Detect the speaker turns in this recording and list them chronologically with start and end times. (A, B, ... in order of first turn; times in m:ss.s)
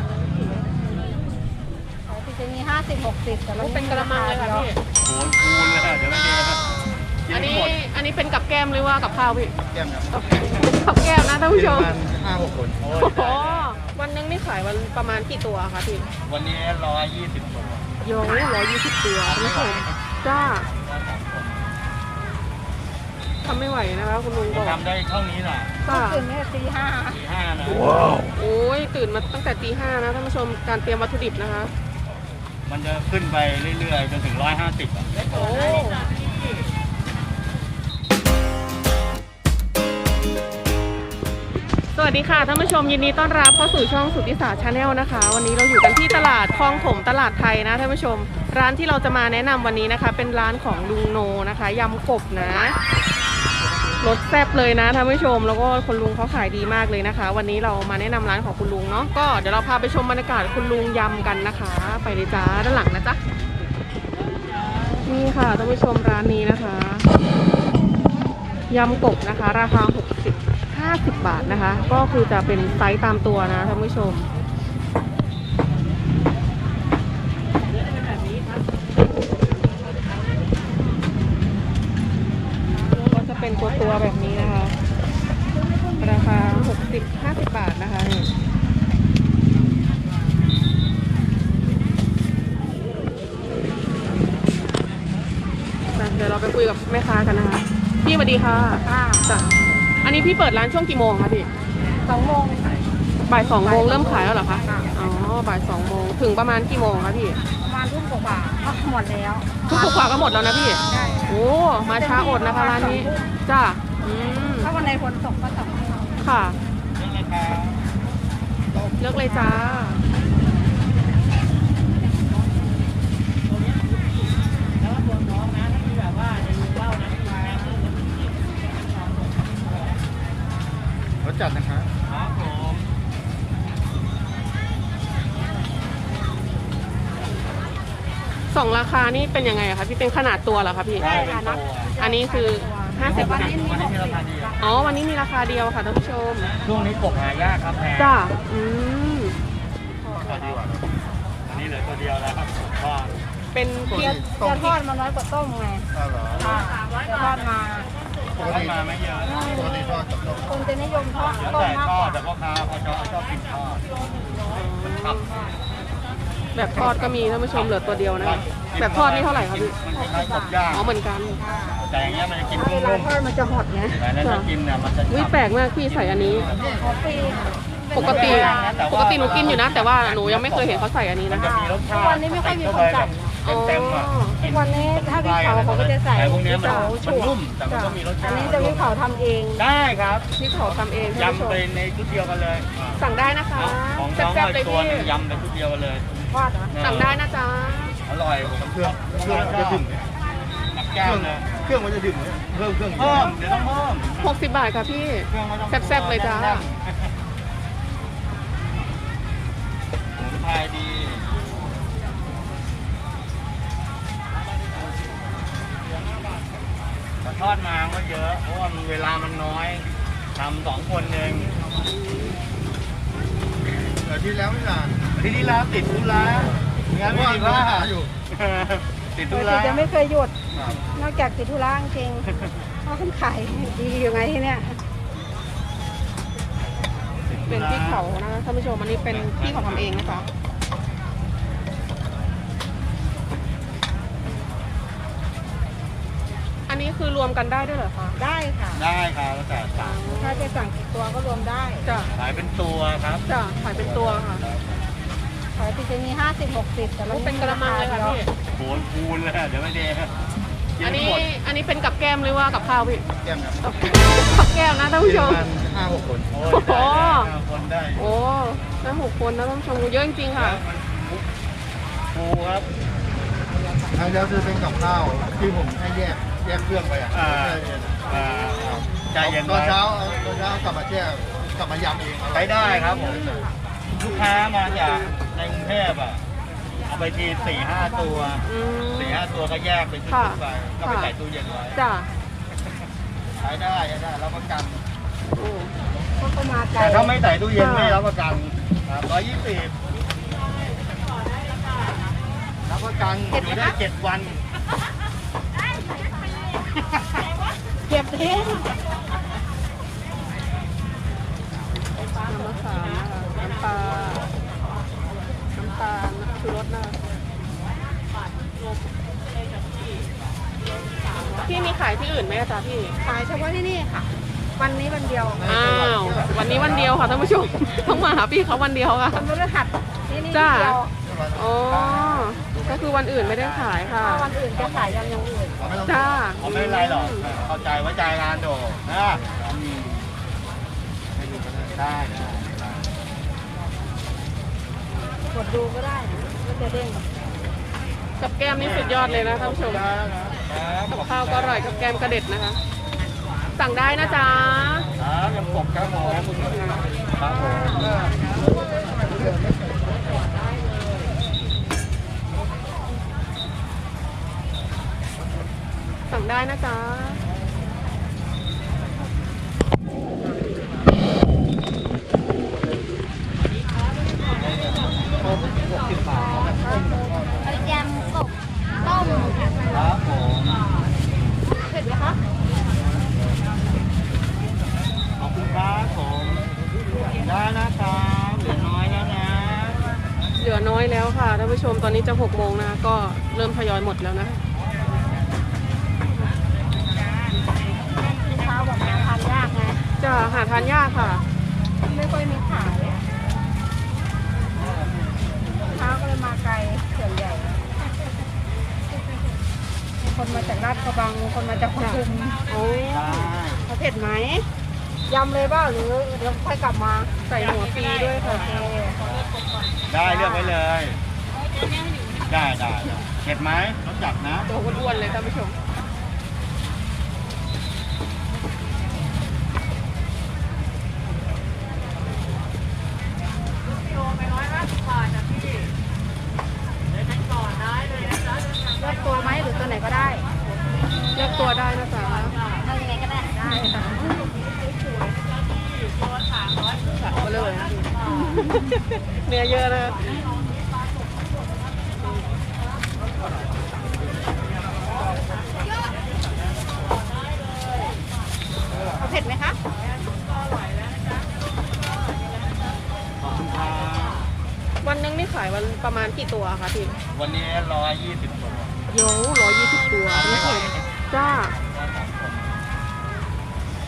0:02.1-0:04.7 A
0:03.6-0:04.8 B
0:05.0-0:06.7 C
0:07.3-0:07.7 C
0:07.3-0:09.6 B
0:10.1-0:11.9 B
0:11.9-0:12.7 D
0:12.8-0:13.9 C
0:13.0-0:16.1 B
0:16.2-0:17.9 C
0:18.0-0:20.7 B
0:19.2-0:20.0 C
0:20.7-0:21.8 C
0:23.4-0:24.8 B
0:24.5-0:25.8 C
0:25.8-0:27.2 A
0:25.9-0:26.3 B
0:27.1-0:28.0 C
0:28.3-0:31.7 B
0:32.7-0:35.1 C
0:35.3-0:36.0 B
0:42.0-0:52.8 B
0:54.0-1:03.2 B
1:05.0-1:07.1 B
1:08.7-1:14.3 B
1:23.1-1:24.8 B
1:26.0-1:28.3 B
1:35.9-1:41.5 B
1:38.8-1:39.5 A
1:42.0-1:45.0 A
1:43.3-1:47.4 B
1:47.6-1:50.1 A
1:49.7-1:54.7 B
1:50.8-1:53.3 A
1:54.6-1:56.1 A
1:56.2-1:56.6 B
1:57.0-1:57.8 C
1:58.7-1:59.1 C
1:59.0-2:00.0 B
1:59.3-1:59.8 A
2:07.2-2:07.7 C
2:12.0-2:12.9 C
2:18.5-2:21.1 B
2:21.0-2:21.9 C
2:21.0-2:24.9 A
2:22.0-2:23.5 B
2:23.0-2:24.5 C
2:24.6-2:26.5 B
2:26.6-2:28.2 C
2:28.0-2:29.4 B
2:30.0-2:30.6 A
2:30.2-2:30.7 C
2:31.5-2:33.2 C
2:33.5-2:34.2 B
2:33.9-2:37.9 A
2:38.3-2:39.6 C
2:39.3-2:39.8 A
2:39.7-2:40.1 D
2:40.4-2:42.2 A
2:41.2-2:43.9 C
2:44.5-2:45.3 B
2:44.9-2:45.3 C
2:46.5-2:49.8 B
2:48.2-2:51.0 C
2:49.9-2:50.6 A
2:50.7-2:51.4 B
2:51.4-2:51.9 A
2:51.8-2:53.1 C
2:52.6-2:54.0 A
2:53.9-2:56.7 C
2:54.2-2:54.5 B
2:55.1-2:56.5 B
2:56.5-2:58.8 A
2:57.9-3:01.5 B
2:58.0-3:08.9 C
3:01.3-3:03.4 A
3:03.4-3:04.4 B
3:04.4-3:07.4 A
3:06.6-3:06.9 B
3:07.7-3:08.0 B
3:08.2-3:09.6 A
3:09.6-3:10.3 C
3:10.4-3:11.6 B
3:11.1-3:13.0 C
3:13.0-3:15.1 B
3:13.6-3:17.2 C
3:16.3-3:16.7 A
3:16.8-3:18.0 B
3:18.1-3:19.9 C
3:20.8-3:21.5 C
3:23.0-3:24.4 C
3:24.2-3:26.7 B
3:25.3-3:27.1 C
3:30.2-3:31.3 C
3:37.2-3:41.5 C
3:44.4-3:44.9 D
3:45.1-3:49.9 C
3:49.3-3:50.4 A
3:50.9-3:52.3 A
3:52.8-3:54.8 A
3:57.2-3:58.0 C
3:57.5-4:00.3 B
3:59.1-4:00.2 C
4:06.7-4:08.2 B
4:08.2-4:08.8 A
4:08.7-4:10.0 C
4:09.8-4:10.6 B
4:10.0-4:11.9 A
4:11.8-4:12.1 B
4:12.2-4:13.2 C
4:13.3-4:14.4 B
4:14.3-4:14.8 C
4:15.6-4:18.2 A
4:17.1-4:18.3 B
4:18.5-4:20.2 C
4:20.8-4:21.2 C
4:20.8-4:23.0 B
4:23.6-4:25.5 B
4:25.5-4:26.1 D
4:26.3-4:28.1 C
4:26.5-4:27.3 B
4:28.0-4:30.6 B
4:30.3-4:31.2 C
4:32.1-4:32.7 C
4:34.0-4:36.9 D
4:37.1-4:39.9 C
4:39.9-4:41.0 D
4:41.7-4:42.1 D
4:42.3-4:43.3 C
4:42.7-4:43.5 B
4:43.9-4:46.2 C
4:44.7-4:45.1 B
4:46.8-4:51.8 C
4:48.4-4:49.2 B
4:50.1-4:51.1 B
4:51.8-4:52.1 B
4:53.4-4:54.8 C
4:55.3-4:55.7 B
4:56.2-4:57.1 A
4:56.7-4:59.8 C
4:57.6-4:58.0 B
5:02.7-5:04.4 C
5:03.3-5:03.8 A
5:07.9-5:08.7 A
5:12.2-5:14.3 B
5:15.6-5:17.0 B
5:21.3-5:23.0 B
5:23.0-5:25.5 A
5:25.5-5:29.3 B
5:25.6-5:26.1 D
5:29.1-5:30.9 A
5:30.3-5:30.8 B
5:31.3-5:34.3 B
5:33.1-5:34.0 C
5:34.0-5:35.7 A
5:34.5-5:35.0 C
5:35.8-5:37.3 B
5:36.4-5:40.1 C
5:41.2-5:42.8 C
5:45.3-5:47.1 A
5:48.2-5:49.8 B
5:48.5-5:51.7 C
5:50.9-5:52.6 B
5:53.5-5:54.9 B
5:55.0-5:58.1 C
5:56.1-5:56.9 B
6:06.1-6:07.2 B
6:15.9-6:16.6 C
6:16.0-6:18.3 A
6:18.8-6:19.9 A
6:19.7-6:20.6 C
6:21.6-6:22.2 A
6:25.2-6:26.5 C
6:27.1-6:29.9 C
6:30.4-6:34.4 B
6:37.8-6:39.9 A
6:40.0-6:41.2 B
6:41.8-6:43.0 A
6:45.7-6:47.6 A
6:50.0-6:54.5 A
6:52.9-6:53.7 C
6:55.1-6:57.2 A
6:57.3-6:58.5 B
6:58.1-6:59.0 A
6:59.0-7:01.0 C
7:00.1-7:00.6 A
7:02.2-7:04.5 C
7:04.5-7:05.6 B
7:18.8-7:20.3 A
7:21.1-7:22.4 B
7:22.6-7:24.4 A
7:27.0-7:30.2 B
7:39.0-7:39.6 A
7:43.2-7:44.3 C
7:44.8-7:47.0 B
7:47.1-7:48.7 C
7:48.9-7:51.5 B
7:50.1-7:52.6 C